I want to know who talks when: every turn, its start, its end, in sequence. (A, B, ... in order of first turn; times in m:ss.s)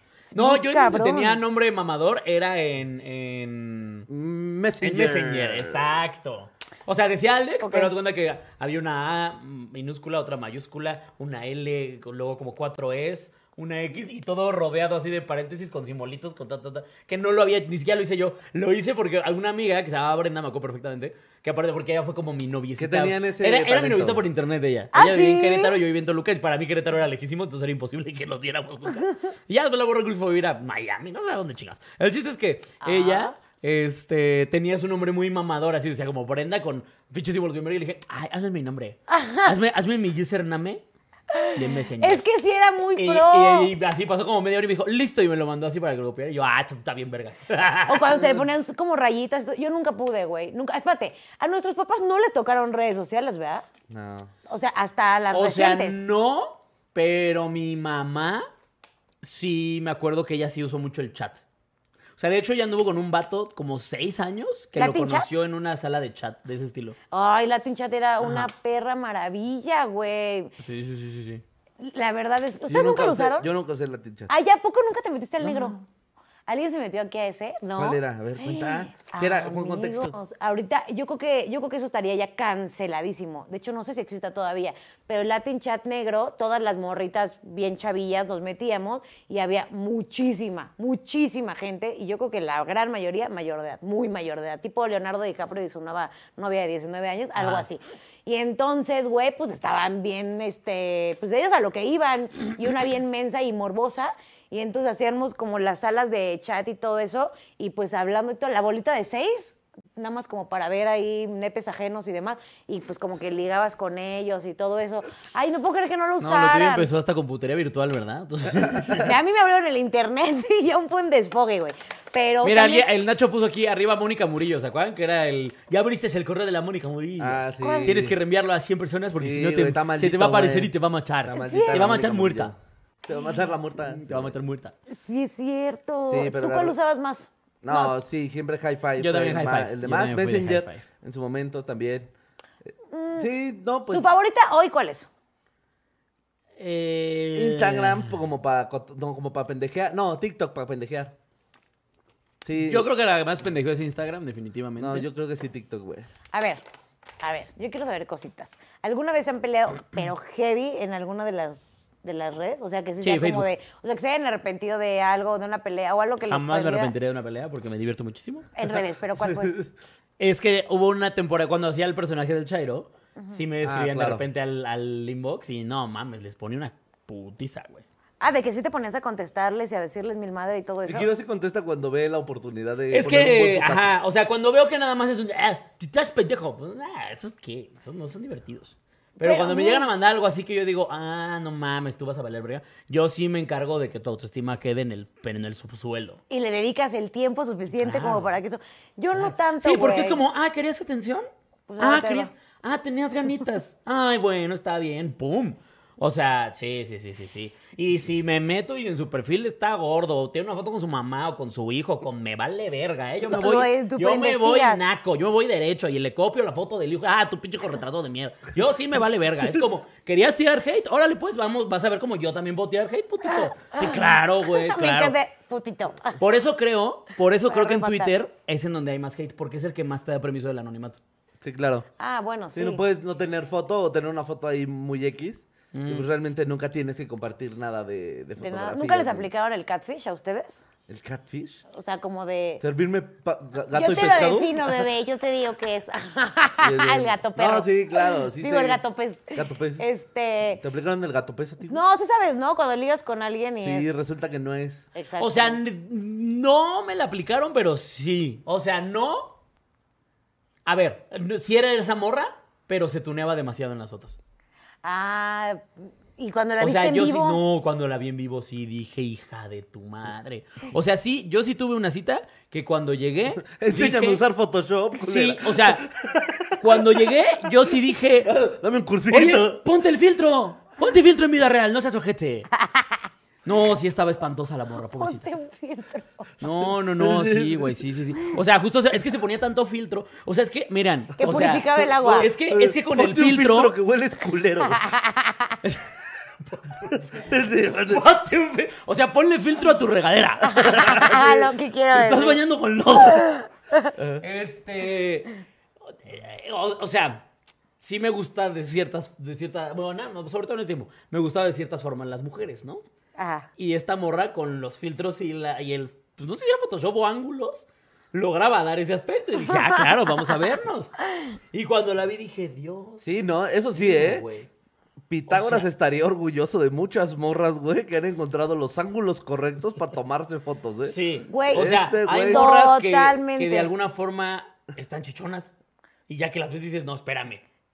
0:00.2-0:01.4 A
0:00.3-0:04.1 B
0:04.1-0:05.9 C
0:04.8-0:40.8 B
0:07.6-0:07.9 A
0:22.8-0:24.2 C
0:24.9-0:25.8 A
0:32.8-0:33.4 A
0:39.1-0:39.5 A
0:41.3-0:43.7 A
0:41.5-0:42.2 B
0:43.0-0:48.4 B
0:47.9-0:53.7 A
0:53.9-0:54.3 C
0:54.5-0:56.0 A
0:55.3-0:58.5 B
0:59.2-1:01.4 B
1:02.2-1:07.0 B
1:04.8-1:05.3 A
1:07.1-1:10.5 A
1:08.2-1:08.5 B
1:10.6-1:11.4 B
1:11.8-1:13.5 A
1:12.7-1:14.3 C
1:14.3-1:15.8 A
1:15.4-1:15.7 B
1:16.5-1:56.9 A
1:17.8-1:20.1 C
1:37.4-1:37.7 B
1:56.2-1:59.1 B
1:58.9-2:02.9 A
2:02.4-2:12.5 B
2:07.2-2:08.2 C
2:07.6-2:08.0 A
2:09.2-2:10.7 C
2:11.2-2:12.6 C
2:11.4-2:11.9 A
2:13.1-2:14.4 C
2:13.8-2:14.7 B
2:14.9-2:18.0 A
2:16.1-2:16.8 C
2:17.6-2:22.1 C
2:19.0-2:20.8 B
2:22.9-2:23.3 A
2:23.2-2:24.1 C
2:23.9-2:25.1 A
2:26.6-2:28.2 B
2:27.3-2:31.1 C
2:32.4-2:32.9 C
2:32.6-2:35.1 B
2:34.8-2:36.1 C
2:36.3-2:36.6 A
2:37.2-2:46.9 A
2:43.0-2:43.5 B
2:46.3-2:48.5 B
2:48.6-2:49.6 A
2:49.2-2:49.7 C
2:50.2-2:57.8 B
2:53.6-2:54.2 C
2:58.2-3:01.1 A
3:00.9-3:03.9 C
3:02.9-3:16.2 B
3:09.2-3:09.9 A
3:16.3-3:20.2 A
3:17.8-3:18.3 B
3:19.1-3:21.3 B
3:21.7-3:22.3 A
3:21.8-3:45.2 B
3:33.2-3:34.8 A
3:43.3-3:46.2 A
3:46.2-3:51.0 B
3:47.5-3:48.1 A
3:51.4-3:51.9 C
3:52.0-3:52.8 A
3:52.6-3:59.3 C
3:55.7-3:56.1 B
3:58.4-4:00.6 A
4:00.9-4:01.6 C
4:01.7-4:02.6 A
4:02.6-4:04.9 C
4:03.7-4:10.6 A
4:06.6-4:08.8 C
4:09.4-4:09.8 C
4:10.6-4:11.8 C
4:11.7-4:14.0 A
4:13.6-4:14.9 C
4:15.0-4:15.6 A
4:15.2-4:19.3 B
4:20.7-4:24.2 B
4:24.8-4:27.4 A
4:26.6-4:34.2 B
4:33.4-4:37.1 C
4:35.0-4:35.9 B
4:36.6-4:38.3 B
4:38.2-4:39.6 C
4:39.1-4:42.5 B
4:42.6-4:43.0 A
4:43.4-4:45.3 B
4:45.0-4:46.3 A
4:46.4-4:53.8 B
4:47.0-4:47.8 C
4:51.2-4:52.3 A
4:52.2-4:54.8 C
4:54.6-4:55.6 A
4:55.6-4:57.3 B
4:57.1-4:58.0 C
4:57.8-5:03.4 B
5:00.4-5:02.4 A
5:00.8-5:01.3 C
5:03.1-5:03.9 A
5:04.0-5:04.2 C
5:04.2-5:05.3 B
5:05.9-5:07.2 B
5:07.8-5:12.8 B
5:13.2-5:13.5 A
5:13.6-5:21.0 B
5:21.5-5:23.0 B
5:23.0-5:24.2 C
5:23.8-5:24.5 B
5:25.1-5:31.0 C
5:25.3-5:25.7 B
5:30.8-5:35.5 B
5:31.3-5:33.7 A
5:31.5-5:32.5 C
5:36.1-5:37.4 B